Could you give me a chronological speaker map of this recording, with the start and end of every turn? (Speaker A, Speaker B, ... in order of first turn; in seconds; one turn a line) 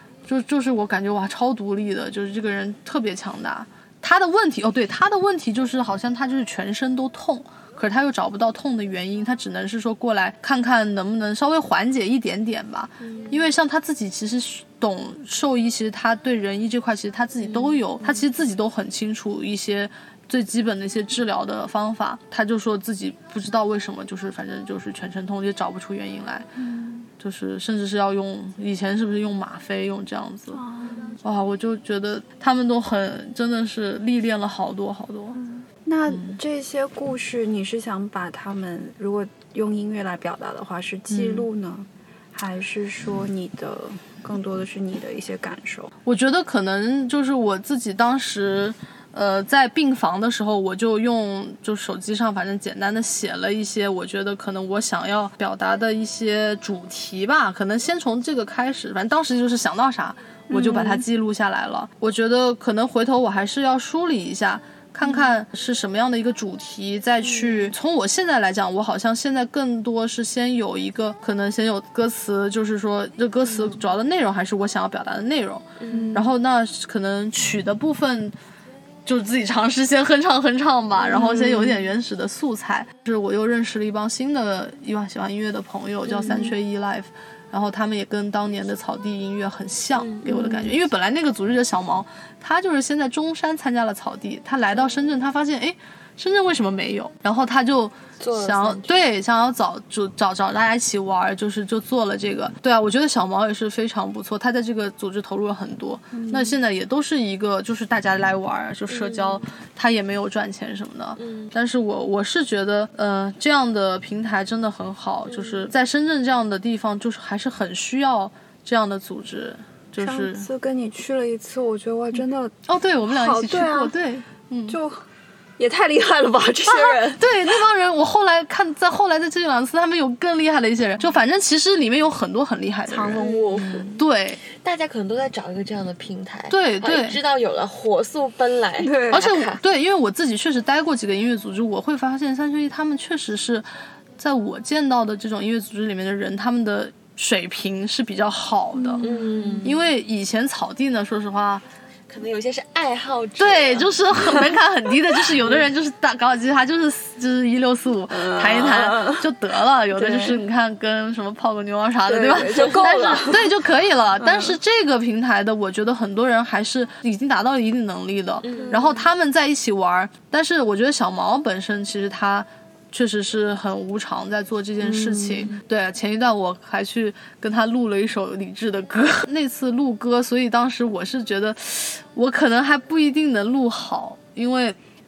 Speaker A: 0.3-26.5
Speaker B: 13.0-13.4
Speaker B: 17.4-17.8
Speaker C: 26.6-27.1
Speaker A: 27.2-30.6
Speaker C: 30.5-31.2
Speaker A: 31.2-35.4
Speaker C: 35.4-45.9
Speaker A: 36.1-36.4
Speaker A: 41.1-41.5
Speaker A: 46.0-78.3
Speaker C: 60.5-61.1
Speaker C: 65.0-65.3
Speaker C: 67.2-67.7
Speaker B: 75.8-76.1
Speaker C: 75.9-76.3
Speaker A: 79.1-120.5
Speaker B: 81.0-81.8
Speaker C: 81.1-81.7
Speaker B: 86.1-86.5
Speaker B: 90.0-90.3
Speaker C: 90.2-90.7
Speaker B: 98.2-99.0
Speaker C: 106.1-106.6
Speaker B: 108.9-109.5
Speaker B: 111.2-111.5
Speaker B: 115.3-115.7
Speaker C: 120.0-124.0
Speaker A: 122.7-124.8
Speaker C: 124.7-125.1
Speaker C: 125.6-127.3
Speaker A: 126.7-134.4
Speaker C: 132.9-133.9
Speaker B: 133.2-139.6
Speaker A: 136.5-137.2
Speaker C: 138.8-139.3
Speaker A: 139.1-149.1
Speaker C: 148.7-149.7
Speaker B: 149.0-149.8
Speaker A: 149.6-151.7
Speaker B: 152.1-153.9
Speaker A: 153.4-184.8
Speaker C: 158.1-159.2
Speaker C: 160.0-160.4
Speaker C: 162.1-163.6
Speaker B: 162.5-163.3
Speaker C: 164.2-164.6
Speaker B: 168.4-169.0
Speaker C: 174.8-175.5